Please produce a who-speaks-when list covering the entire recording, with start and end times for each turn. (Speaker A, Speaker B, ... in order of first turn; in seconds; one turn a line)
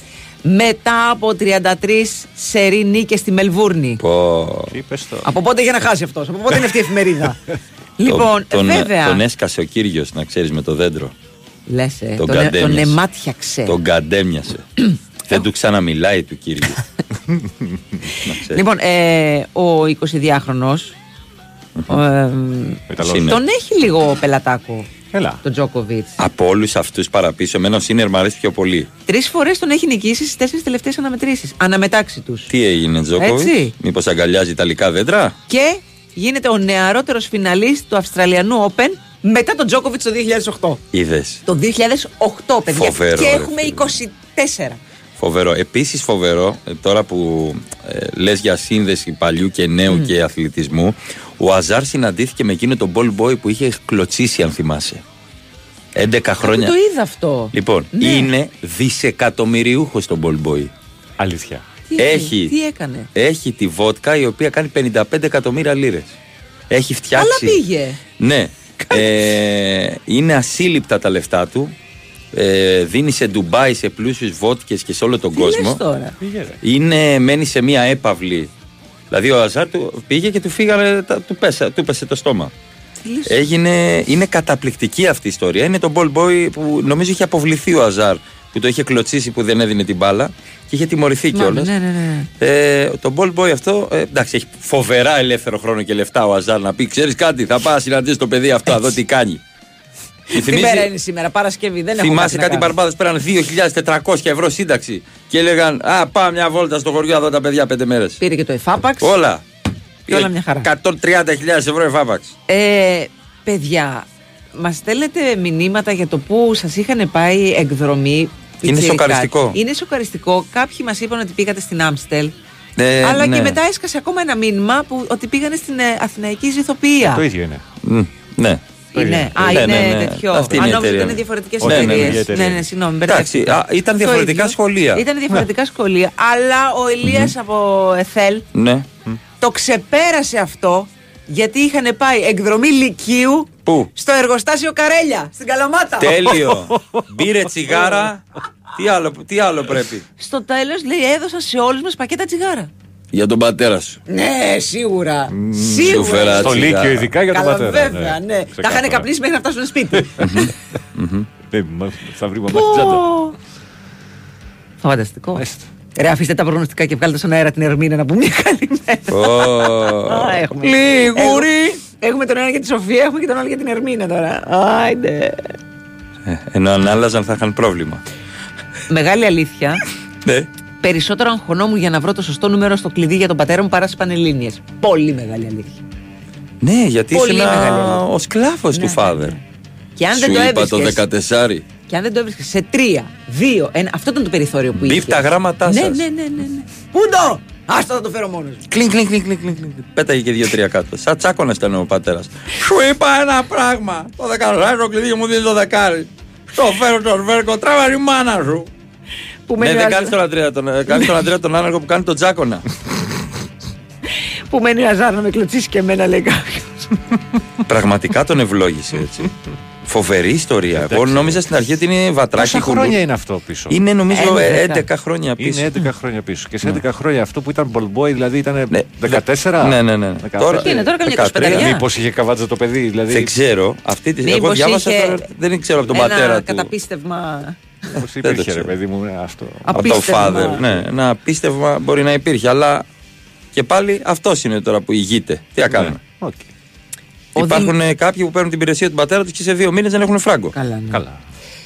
Speaker A: 0.5-4.0
Speaker B: 4.0-4.8
Speaker C: 4.7-5.3
Speaker A: 5.2-7.4
Speaker A: 8.0-9.2
Speaker B: 8.1-11.1
Speaker A: 11.7-13.7
Speaker B: 12.2-13.0
Speaker B: 13.7-14.7
Speaker B: 15.3-16.8
Speaker B: 18.2-18.6
Speaker A: 18.5-21.0
Speaker A: 21.9-24.9
Speaker C: 22.9-23.3
Speaker B: 23.0-23.4
Speaker C: 25.1-25.4
Speaker A: 25.4-26.2
Speaker B: 26.2-28.9
Speaker A: 29.1-32.5
Speaker B: 32.5-35.4
Speaker A: 33.2-33.7
Speaker A: 35.5-40.8
Speaker B: 40.9-41.4
Speaker A: 41.5-44.8
Speaker B: 42.7-44.0
Speaker B: 45.2-55.0
Speaker B: 56.0-56.7
Speaker A: 56.4-58.3
Speaker B: 57.5-60.7
Speaker C: 61.2-61.6
Speaker A: 61.9-63.1
Speaker B: 62.0-62.5
Speaker B: 63.1-66.1
Speaker B: 66.7-67.6
Speaker A: 67.2-68.0
Speaker B: 68.2-71.7
Speaker B: 72.3-75.8
Speaker A: 75.3-76.2
Speaker C: 76.2-76.6
Speaker B: 76.6-78.5
Speaker B: 79.1-82.5
Speaker A: 83.0-83.5
Speaker B: 83.3-91.7
Speaker A: 91.3-92.3
Speaker B: 92.4-99.4
Speaker A: 100.3-102.7
Speaker B: 100.3-100.9
Speaker B: 102.0-108.2
Speaker A: 108.2-109.1
Speaker B: 109.0-109.4
Speaker B: 110.1-112.3
Speaker A: 110.1-110.7
Speaker A: 112.5-122.3
Speaker B: 118.6-119.6
Speaker B: 122.8-123.6
Speaker A: 123.0-127.2
Speaker C: 127.1-127.6
Speaker B: 127.8-128.6
Speaker C: 128.9-129.9
Speaker A: 128.9-138.5
Speaker B: 129.4-132.2
Speaker C: 130.5-130.8
Speaker C: 131.6-132.7
Speaker B: 133.1-135.0
Speaker B: 137.0-137.3
Speaker B: 138.5-138.9
Speaker A: 139.4-146.3
Speaker B: 143.7-143.9
Speaker B: 146.0-148.2
Speaker B: 148.8-150.1
Speaker A: 150.2-152.7
Speaker B: 153.1-154.0
Speaker A: 154.1-156.7
Speaker C: 155.3-159.1
Speaker B: 155.9-157.1
Speaker A: 157.3-160.3
Speaker B: 160.2-161.3
Speaker C: 161.5-163.1
Speaker A: 162.5-163.3
Speaker A: 164.8-165.4
Speaker C: 165.4-165.7
Speaker A: 166.0-175.6
Speaker B: 169.1-171.7
Speaker B: 176.3-178.0
Speaker A: 178.9-179.8
Speaker A: 180.8-185.8
Speaker B: 186.6-189.3
Speaker A: 187.1-188.0
Speaker A: 188.7-189.4
Speaker A: 190.0-191.0
Speaker B: 190.1-191.7
Speaker A: 191.9-198.6
Speaker B: 194.8-196.0
Speaker B: 198.7-208.7
Speaker A: 209.5-210.2
Speaker B: 209.6-212.7
Speaker A: 214.5-216.9
Speaker B: 217.7-219.3
Speaker B: 219.9-223.0
Speaker C: 220.8-221.4
Speaker C: 222.3-223.8
Speaker B: 223.7-225.7
Speaker A: 224.1-224.8
Speaker C: 225.4-230.9
Speaker B: 228.7-231.8
Speaker A: 230.6-231.8
Speaker C: 231.4-233.3
Speaker B: 233.1-236.7
Speaker A: 234.2-235.2
Speaker A: 235.9-237.6
Speaker C: 238.0-240.8
Speaker B: 238.2-238.7
Speaker A: 239.7-240.6
Speaker B: 239.7-242.9
Speaker B: 243.5-246.0
Speaker C: 245.7-246.5
Speaker A: 247.4-247.7
Speaker B: 247.4-250.5
Speaker A: 250.5-251.0
Speaker C: 250.9-251.2